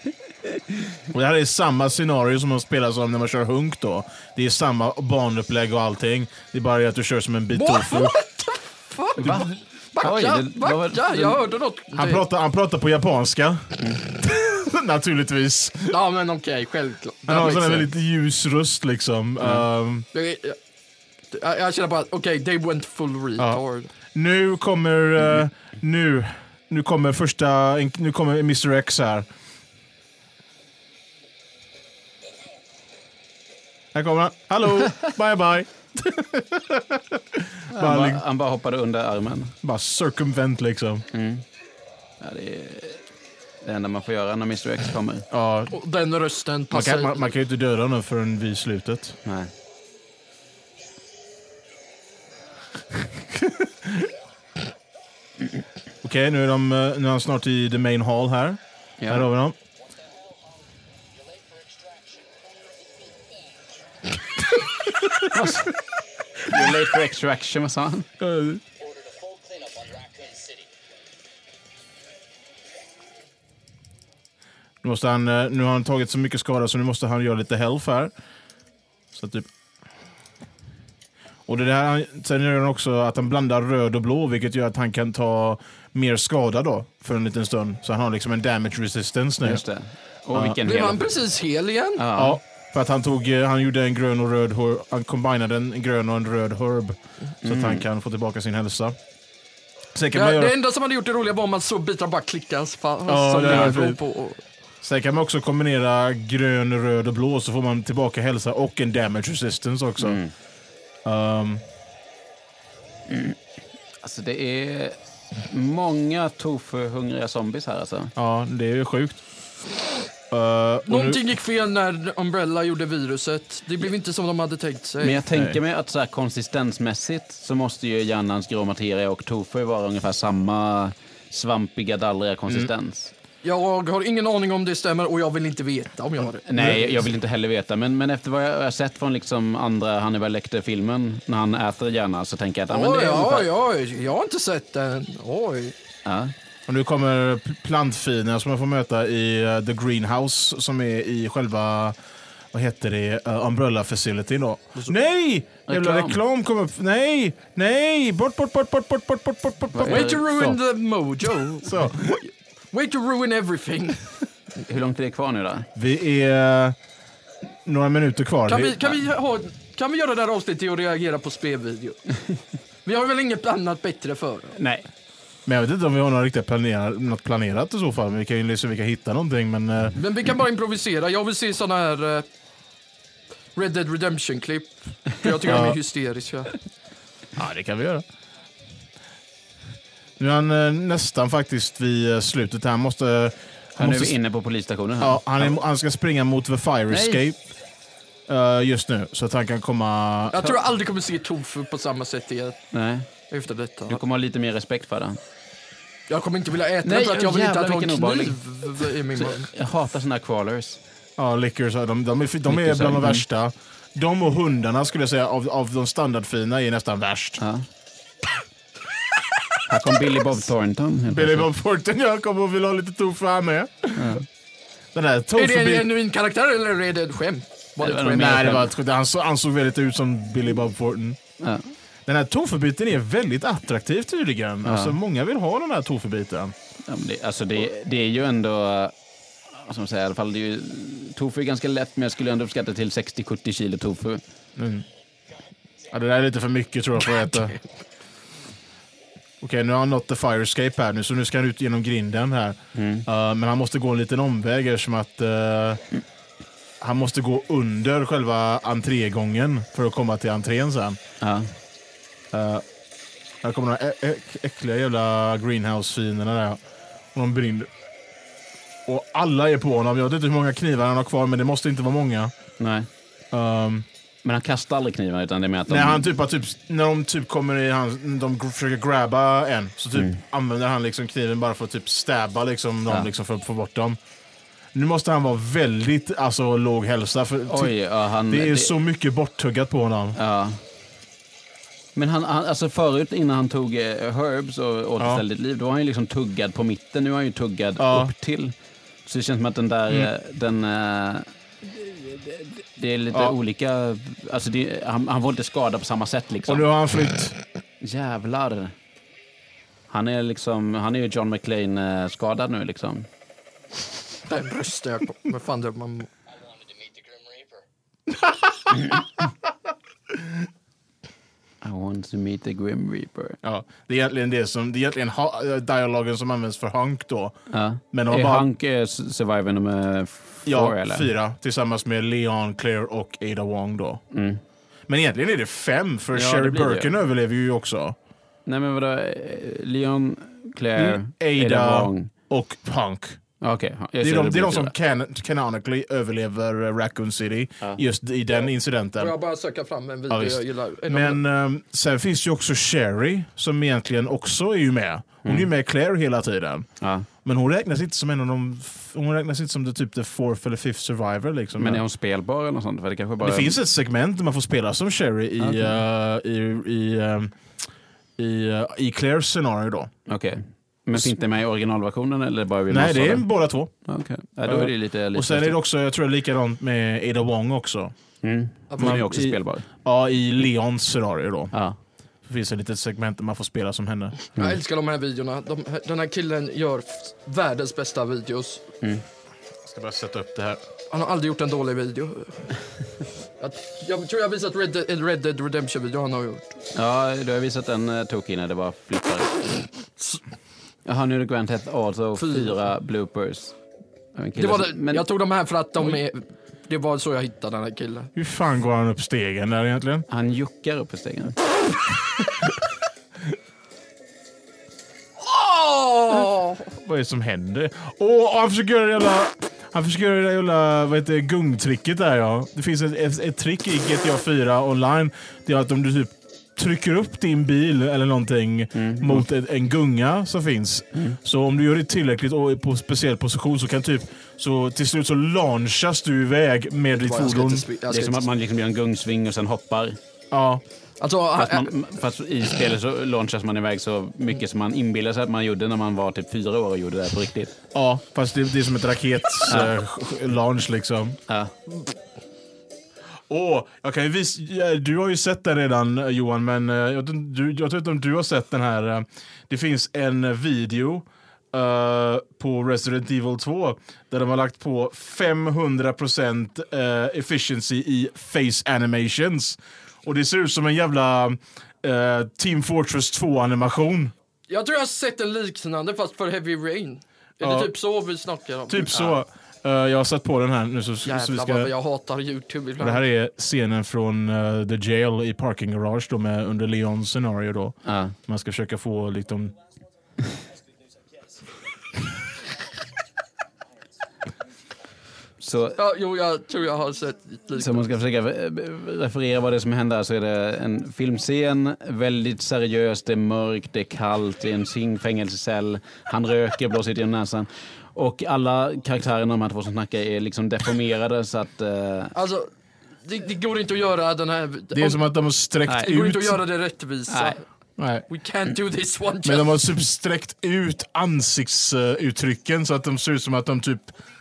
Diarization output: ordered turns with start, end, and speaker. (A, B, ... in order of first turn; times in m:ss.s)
0:01.1-0:08.2 A
0:07.5-0:12.2 B
0:09.2-0:11.4 C
0:09.2-0:09.5 A
0:11.9-0:16.0 A
0:15.9-0:17.9 B
0:17.3-0:20.1 A
0:20.1-0:20.6 B
0:21.3-0:23.9 B
0:24.1-0:29.3 A
0:33.9-0:38.2 A
0:37.7-0:39.5 C
0:39.6-0:41.0 A
0:41.1-0:41.4 C
0:42.2-0:43.0 C
0:43.6-0:45.3 C
0:45.3-0:45.8 A
0:45.7-0:47.3 B
0:46.7-0:49.2 A
0:49.2-0:49.5 C
0:53.2-0:54.1 A
0:56.0-0:59.6 A
0:59.0-0:59.3 C
0:59.8-1:03.8 D
1:05.0-1:05.5 A
1:05.3-1:05.8 C
1:06.4-1:08.1 C
1:08.2-1:08.6 A
1:08.8-1:10.8 D
1:14.8-1:18.1 A
1:19.1-1:19.5 A
1:21.5-1:29.6 A
1:29.4-1:31.0 C
1:30.3-1:30.6 A
1:30.6-1:32.0 B
1:32.0-1:32.4 C
1:32.2-1:39.0 A
1:37.4-1:37.8 C
1:39.9-1:40.6 A
1:40.1-1:44.4 B
1:43.1-1:44.0 A
1:44.8-1:50.2 A
1:50.0-1:50.3 C
1:51.0-1:51.6 A
1:53.1-1:53.4 C
1:54.0-1:58.1 C
1:58.2-1:59.2 A
2:00.3-2:01.2 A
2:00.9-2:05.2 B
2:05.0-2:13.1 C
2:05.3-2:05.6 A
2:13.4-2:16.5 B
2:16.5-2:23.5 C
2:16.6-2:16.9 A
2:22.7-2:25.8 B
2:26.0-2:26.3 C
2:26.7-2:32.0 A
2:32.5-2:40.6 A
2:35.7-2:36.2 C
2:39.7-2:40.2 C
2:39.8-2:44.2 B
2:41.6-2:42.2 A
2:44.6-2:45.7 C
2:45.8-2:46.8 A
2:47.6-2:48.8 A
2:48.5-2:52.2 B
2:52.8-2:54.6 B
2:54.6-2:54.9 C
2:55.5-3:00.0 A
3:00.0-3:02.2 B
3:03.6-3:06.6 B
3:05.4-3:05.8 A
3:07.4-3:08.0 A
3:10.2-3:14.2 A
3:13.8-3:15.6 C
3:15.0-3:17.4 A
3:16.9-3:17.2 C
3:18.3-3:20.5 A
3:20.3-3:22.6 B
3:22.7-3:23.1 C
3:23.3-3:24.0 B
3:23.9-3:25.2 C
3:26.1-3:29.5 B
3:26.8-3:30.8 C
3:31.2-3:37.4 A
3:32.5-3:33.2 C
3:37.4-3:37.6 C
3:39.7-3:41.5 C
3:41.1-3:44.2 A
3:44.0-3:44.2 C
3:44.9-3:45.9 A
3:45.4-3:48.4 B
3:47.8-3:48.7 C
3:48.0-3:51.2 A
3:51.4-3:51.7 C
3:52.1-3:56.5 A
3:54.6-3:55.0 C
3:56.9-3:58.9 C
3:59.5-4:04.2 C
4:04.6-4:04.9 A
4:05.9-4:07.6 A
4:09.4-4:15.8 A
4:12.8-4:13.1 C
4:16.8-4:21.0 A
4:21.2-4:21.5 C
4:22.3-4:22.6 A
4:23.4-4:26.6 A
4:27.1-4:27.7 A
4:28.9-4:32.3 A
4:32.6-4:32.9 C
4:33.3-4:33.9 A
4:34.2-4:36.1 C
4:35.7-4:44.0 A
4:44.7-4:47.7 A
4:47.5-4:48.7 C
4:48.3-4:50.2 A
4:50.2-4:50.6 C
4:52.0-4:58.5 C
4:57.8-4:58.1 A
4:59.1-5:06.7 C
5:06.5-5:07.4 A
5:07.8-5:08.7 C
5:09.9-5:13.1 C
5:14.3-5:16.1 B
5:16.3-5:17.6 D
5:21.6-5:23.4 C
5:23.4-5:27.4 A
5:27.5-5:31.1 C
5:27.9-5:28.5 A
5:30.5-5:34.0 A
5:34.1-5:34.4 C
5:34.9-5:38.0 A
5:36.1-5:36.9 C
5:38.5-5:42.1 C
5:40.8-5:43.2 A
5:43.4-5:44.7 C
5:44.0-5:49.1 A
5:49.0-5:51.2 B
5:50.1-5:56.7 A
5:56.8-5:57.1 C
5:57.2-6:01.8 A
6:01.6-6:03.6 C
6:03.2-6:07.4 A
6:05.4-6:05.8 C
6:08.2-6:09.9 A
6:10.1-6:13.3 C
6:12.7-6:13.7 A
6:13.8-6:15.6 C
6:14.4-6:17.9 A
6:18.2-6:19.6 C
6:18.7-6:19.0 B
6:18.8-6:21.5 A
6:21.5-6:21.8 C
6:22.2-6:24.2 A
6:24.4-6:28.7 B
6:29.7-6:30.6 A
6:30.9-6:32.6 B
6:33.4-6:36.5 B
6:36.7-6:39.4 C
6:40.8-6:43.6 C
6:42.2-6:42.6 B
6:44.2-6:45.0 C
6:44.4-6:48.1 B
6:48.2-6:50.1 A
6:50.1-6:51.4 C
6:55.2-6:56.7 B
6:56.7-7:17.7 A
7:08.7-7:09.2 C
7:17.0-7:18.2 B
7:17.9-7:20.0 C
7:20.3-7:20.6 A
7:21.0-7:21.7 B
7:21.4-7:27.5 C
7:27.7-7:31.2 A
7:29.5-7:29.7 C
7:31.3-7:31.5 C
7:33.3-7:54.1 A
7:54.5-7:59.0 B
7:57.4-7:57.7 A
7:58.7-8:01.7 A
8:01.0-8:03.0 B
8:02.8-8:09.5 A
8:07.8-8:08.2 C
8:15.4-8:15.8 C
8:15.8-8:17.8 B
8:17.6-8:32.2 C
8:32.2-8:32.5 B
8:33.0-8:35.0 B
8:34.7-8:36.4 A
8:35.7-8:37.4 B
8:37.1-8:37.4 C
8:37.8-8:38.1 A
8:38.1-8:39.6 B
8:39.2-8:43.9 A